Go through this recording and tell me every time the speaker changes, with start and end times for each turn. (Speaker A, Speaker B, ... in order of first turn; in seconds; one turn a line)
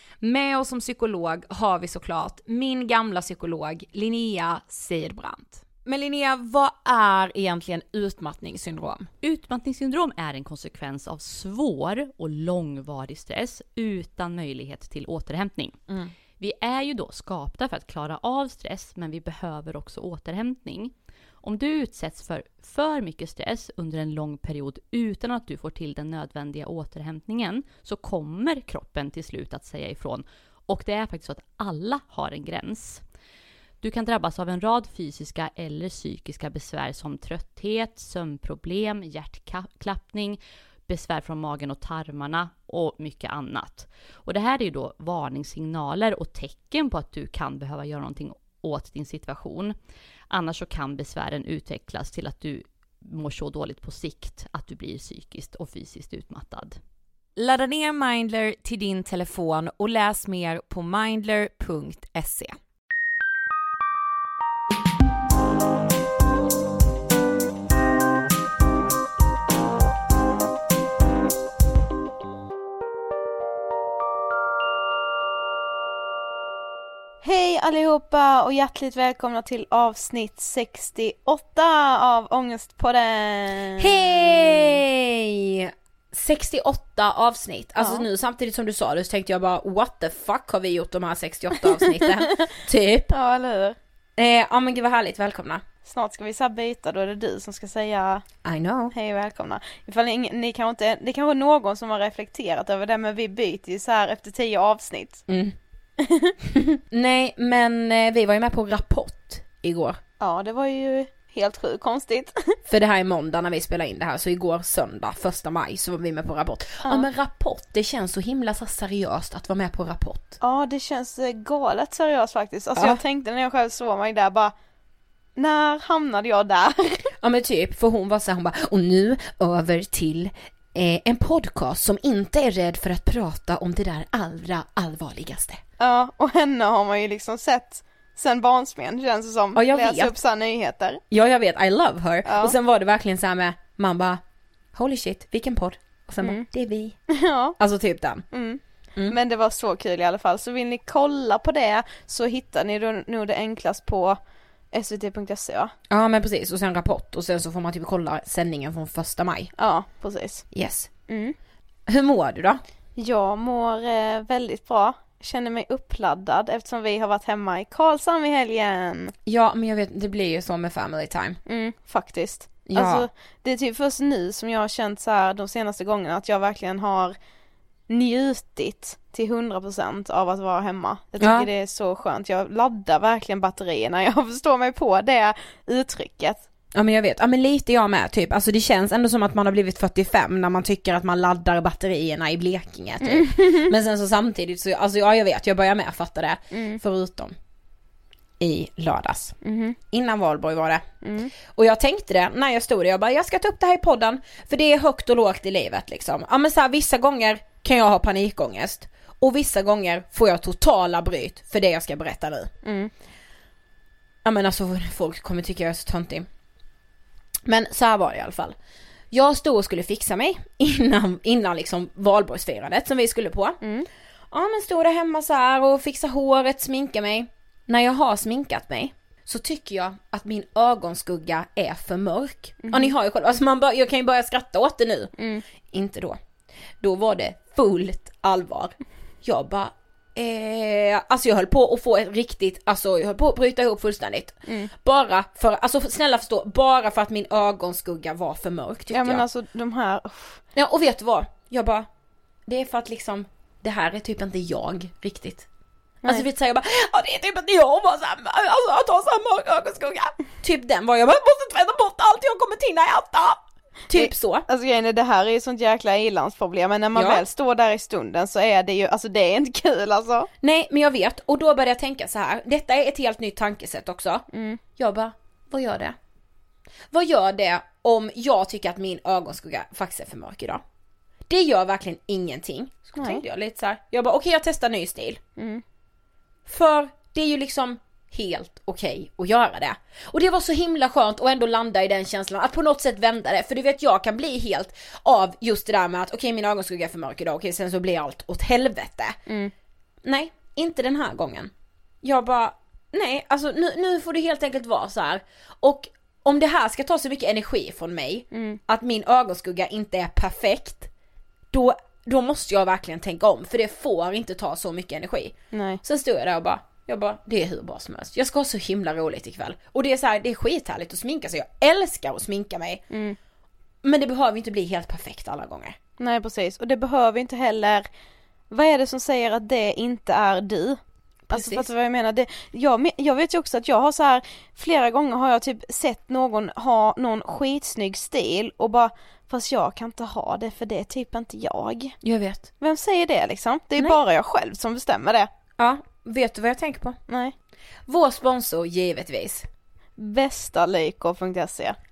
Speaker A: 0.2-9.1
Speaker B: 9.2-15.8
Speaker B: 16.4-33.0
Speaker B: 33.8-49.8
Speaker B: 50.3-56.8
Speaker A: 57.4-62.6
Speaker C: 77.2-84.8
Speaker A: 83.8-93.1
Speaker C: 87.8-88.1
Speaker C: 93.1-93.8
Speaker A: 94.2-95.6
Speaker C: 95.8-98.2
Speaker A: 98.4-98.9
Speaker C: 98.9-105.2
Speaker A: 105.3-105.5
Speaker C: 106.0-106.4
Speaker A: 106.9-110.0
Speaker C: 110.2-112.6
Speaker A: 112.7-120.4
Speaker C: 120.4-124.5
Speaker C: 125.4-127.0
Speaker A: 127.2-135.6
Speaker C: 135.8-141.0
Speaker A: 139.6-140.2
Speaker A: 141.1-144.2
Speaker C: 142.3-142.6
Speaker A: 144.7-147.0
Speaker C: 147.1-147.6
Speaker A: 147.6-148.3
Speaker C: 148.3-154.2
Speaker C: 154.7-155.7
Speaker A: 155.9-159.5
Speaker C: 159.6-160.5
Speaker A: 160.5-160.9
Speaker C: 161.1-161.4
Speaker A: 161.9-162.6
Speaker C: 163.0-169.1
Speaker A: 169.3-171.4
Speaker C: 171.5-177.2
Speaker A: 172.7-173.1
Speaker C: 177.9-186.4
Speaker A: 181.2-181.5
Speaker A: 186.7-197.3
Speaker C: 193.0-193.7
Speaker C: 196.5-196.8
Speaker A: 198.4-199.3
Speaker C: 199.4-199.8
Speaker A: 199.9-200.9
Speaker C: 201.0-201.3
Speaker A: 201.5-212.5
Speaker C: 212.6-212.9
Speaker A: 214.2-216.3
Speaker A: 217.5-218.6
Speaker A: 219.1-223.6
Speaker C: 223.6-223.9
Speaker A: 224.3-235.1
Speaker C: 232.6-232.9
Speaker C: 235.2-235.4
Speaker A: 235.7-236.2
Speaker A: 236.8-249.2
Speaker C: 248.9-250.4
Speaker A: 250.6-251.9
Speaker A: 252.5-255.5
Speaker A: 256.1-264.5
Speaker C: 263.9-270.3
Speaker A: 266.9-267.2
Speaker A: 270.4-274.2
Speaker C: 274.3-274.6
Speaker A: 274.8-276.0
Speaker A: 276.9-280.6
Speaker A: 281.3-285.2
Speaker C: 283.0-283.2
Speaker C: 285.4-285.6
Speaker A: 286.5-299.2
Speaker C: 299.3-299.5
Speaker A: 300.1-301.5
Speaker A: 302.0-310.9
Speaker C: 308.3-308.6
Speaker A: 311.5-322.8
Speaker C: 315.5-315.8
Speaker C: 322.9-323.2
Speaker A: 323.8-325.8
Speaker C: 326.0-327.9
Speaker C: 328.5-330.8
Speaker A: 331.3-331.7
Speaker C: 331.3-342.0
Speaker A: 342.0-342.5
Speaker C: 342.6-345.3
Speaker A: 345.6-347.0
Speaker C: 347.1-347.3
Speaker A: 347.9-349.5
Speaker C: 350.0-351.8